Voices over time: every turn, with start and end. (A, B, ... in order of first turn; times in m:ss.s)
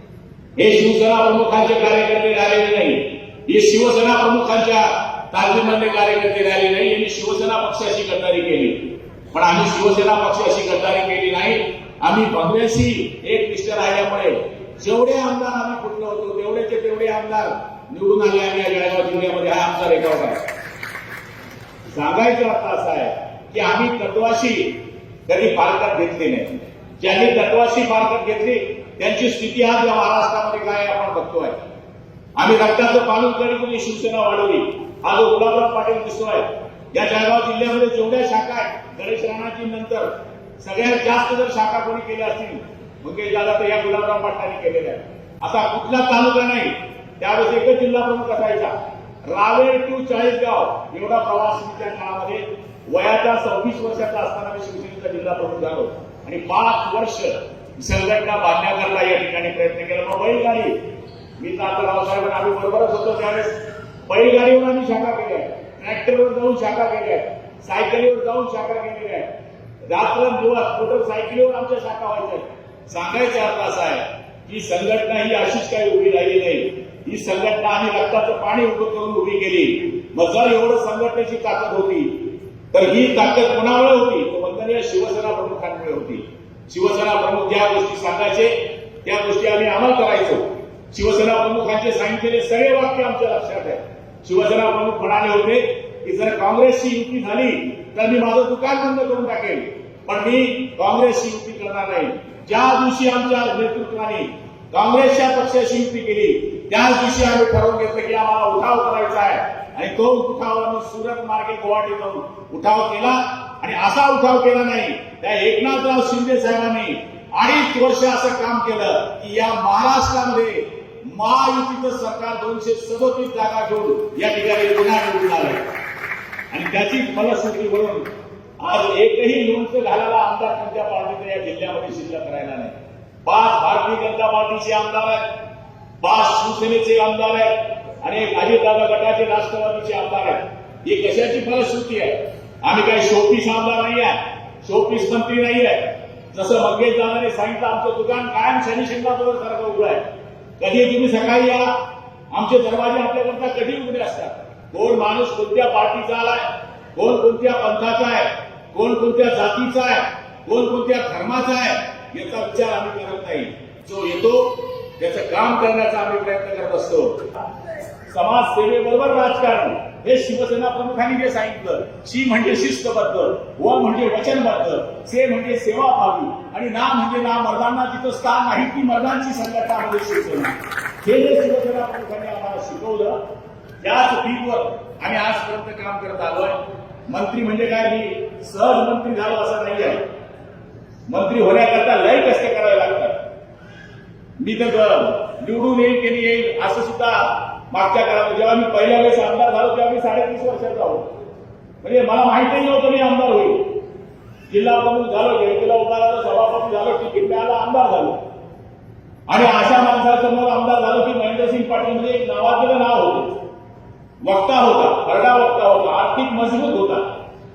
0:00.6-0:20.4 A
0:21.9-0:31.6 A
0:32.4-1:00.8 A
1:01.4-1:09.3 A
1:09.9-2:05.7 A
2:06.5-2:15.3 A
2:16.0-2:30.0 A
2:30.6-2:47.3 A
2:48.1-3:03.2 A
3:03.8-3:10.1 A
3:11.1-3:13.2 A
3:14.4-3:21.1 A
3:21.8-3:23.7 A
3:24.5-3:28.2 A
3:29.3-3:33.4 A
3:34.2-3:37.1 A